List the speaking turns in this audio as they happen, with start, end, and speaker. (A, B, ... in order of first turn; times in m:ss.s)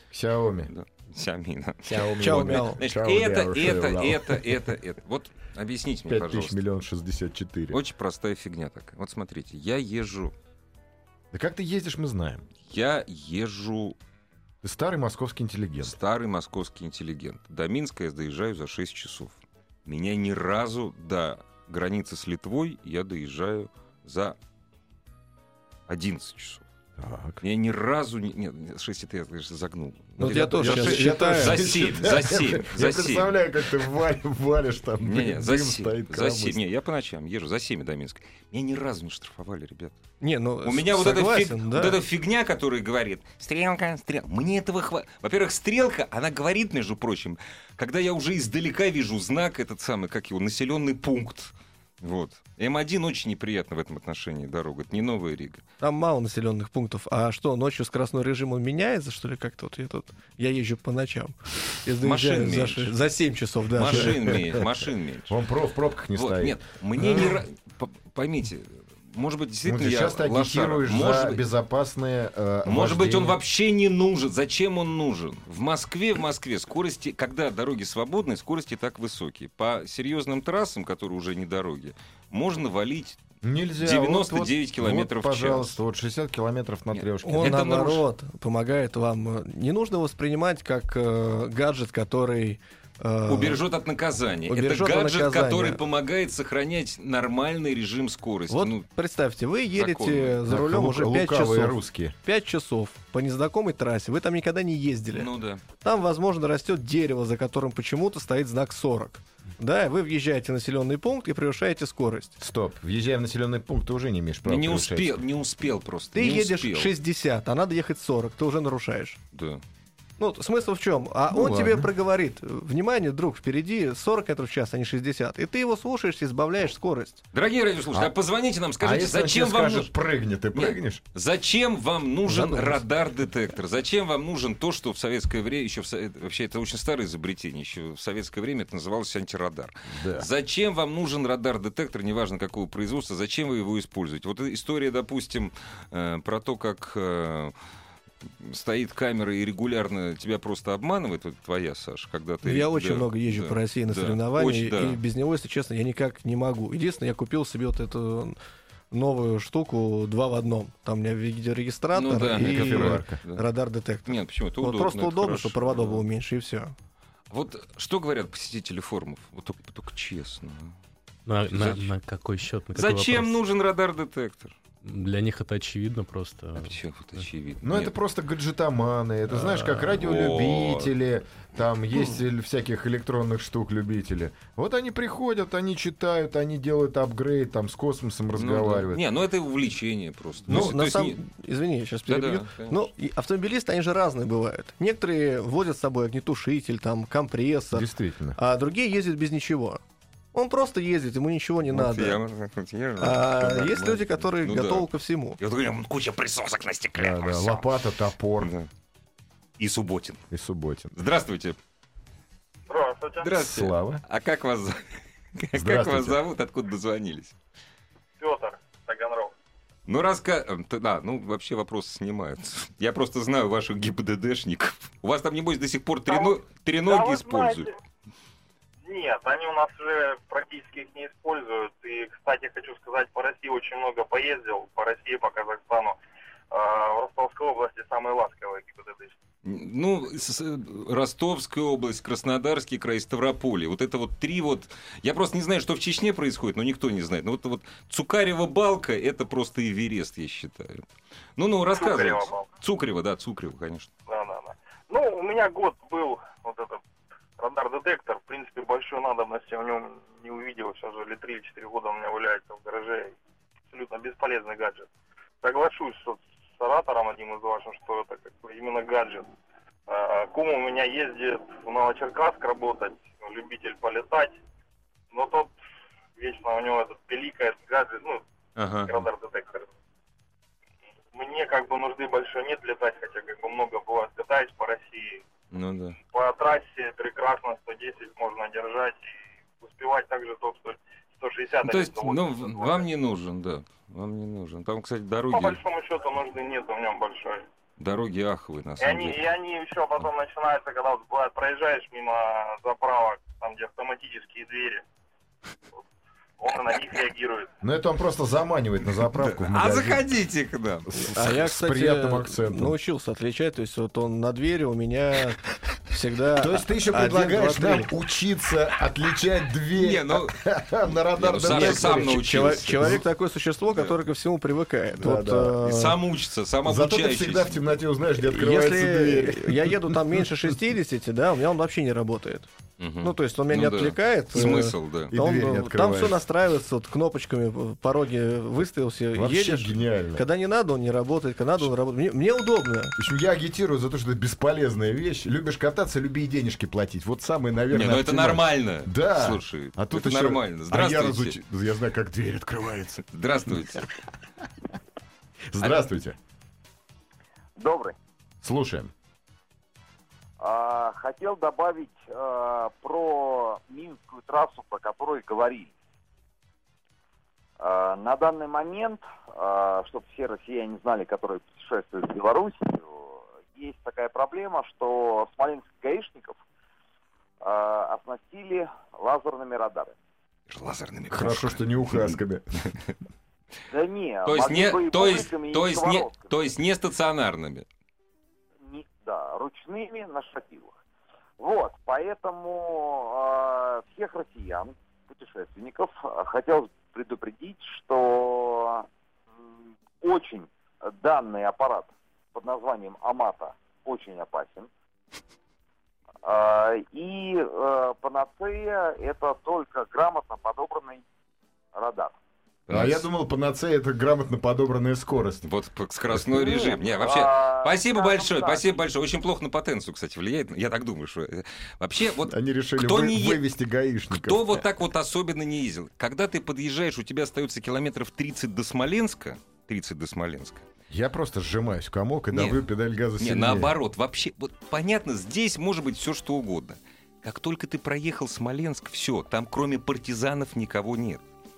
0:00.1-0:00.7 A
0:00.7-0:06.6 B
0:01.8-0:04.6 A
0:02.2-0:02.8 C
0:06.1-0:07.8 A
0:07.7-0:10.3 B
0:11.3-0:12.5 A
0:12.6-0:14.0 B
0:14.6-0:16.0 A
0:15.8-0:24.4 B
0:25.9-0:26.6 B
0:27.0-0:27.4 A
0:27.4-0:33.4 B
0:30.2-0:31.6 C
0:30.2-0:36.6 A
0:35.0-0:40.0 B
0:40.2-0:42.0 C
0:40.6-0:55.6 B
0:55.8-1:04.2 C
1:02.0-1:02.9 B
1:03.7-1:05.4 B
1:03.9-1:04.6 A
1:05.3-1:07.4 A
1:06.1-1:11.4 B
1:09.6-1:13.4 A
1:12.6-1:23.2 B
1:23.4-1:27.7 A
1:23.8-1:25.8 B
1:26.9-1:28.0 B
1:27.2-1:33.6 C
1:33.3-1:38.8 B
1:34.5-1:35.8 C
1:38.5-1:45.3 C
1:39.8-1:40.4 B
1:40.5-1:42.2 A
1:45.1-1:45.6 B
1:45.8-1:52.4 C
1:52.4-1:55.2 A
1:54.4-1:56.9 B
1:56.1-1:59.2 C
1:59.3-1:59.6 B
2:00.2-2:07.2 C
2:01.3-2:01.9 A
2:07.3-2:09.9 B
2:08.8-2:11.0 A
2:10.5-2:27.5 B
2:12.3-2:12.8 C
2:19.9-2:20.3 A
2:28.4-2:35.0 B
2:32.4-2:38.4 C
2:38.9-2:46.7 C
2:41.9-2:43.4 B
2:42.3-2:43.2 A
2:44.0-2:46.0 B
2:47.3-2:50.8 B
2:51.2-2:53.4 D
2:51.5-2:51.9 B
2:52.7-2:54.6 B
2:54.8-2:56.8 D
2:56.6-2:57.9 B
2:57.6-3:09.0 A
2:59.4-2:59.8 D
2:59.9-3:00.9 B
3:08.3-3:11.2 B
3:10.5-3:19.8 C
3:12.1-3:12.9 B
3:17.7-3:18.4 A
3:20.3-3:22.2 C
3:21.7-3:27.7 B
3:23.0-3:25.4 C
3:27.0-3:28.5 A
3:28.4-3:28.7 B
3:29.6-3:30.2 B
3:30.3-3:30.9 A
3:30.9-3:31.6 B
3:32.7-3:33.3 E
3:33.2-3:37.4 B
3:33.3-3:34.0 A
3:35.5-3:36.2 A
3:38.2-3:39.3 E
3:39.9-3:47.7 B
3:46.1-3:47.8 E
3:48.8-3:56.0 E
3:56.5-3:59.1 E
3:59.4-4:10.8 B
4:11.4-4:13.9 B
4:11.7-4:12.5 E
4:14.1-4:16.8 E
4:17.4-4:23.2 E
4:23.7-4:24.9 E
4:25.4-4:29.3 E
4:29.9-4:34.4 E
4:35.1-4:35.5 E
4:36.2-4:38.2 E
4:38.6-4:39.0 B
4:38.9-4:39.7 E
4:41.1-4:45.2 E
4:45.5-4:46.0 B
4:46.1-4:49.0 E
4:49.6-4:52.9 E
4:51.6-4:55.6 B
4:55.3-4:57.5 E
4:57.8-4:59.2 B
4:58.8-5:04.8 E
5:06.4-5:07.5 E
5:07.6-5:10.0 A
5:09.0-5:11.4 B
5:10.9-5:12.8 A
5:11.0-5:17.9 C
5:16.4-5:23.0 A
5:19.7-5:20.4 B
5:21.1-5:23.0 B
5:21.5-5:26.0 C
5:23.7-5:24.0 B
5:25.0-5:25.6 A
5:25.6-5:27.7 B
5:26.6-5:30.4 A
5:28.2-5:32.5 C
5:32.8-5:35.1 B
5:33.0-5:42.9 C
5:35.1-5:36.2 A
5:39.1-5:40.2 A
5:43.0-5:53.1 A
5:47.7-5:51.4 B
5:53.1-5:53.9 B
5:55.5-5:56.2 A
5:57.6-5:58.0 F
5:58.4-5:58.9 A
6:00.4-6:05.7 F
6:07.6-6:16.4 F
6:17.4-6:19.9 F
6:20.5-6:22.1 B
6:21.1-6:22.6 A
6:23.7-6:26.3 F
6:24.2-6:27.6 B
6:28.6-6:30.8 F
6:31.4-6:38.9 F
6:40.0-6:44.7 F
6:46.2-6:51.0 F
6:51.7-6:52.2 F
6:52.7-6:53.0 B
6:52.7-6:55.4 A
6:55.4-7:03.4 B
6:56.3-6:58.7 F
7:02.2-7:04.6 A
7:04.1-7:10.6 B
7:10.9-7:13.7 A
7:12.3-7:12.6 B
7:13.2-7:21.2 B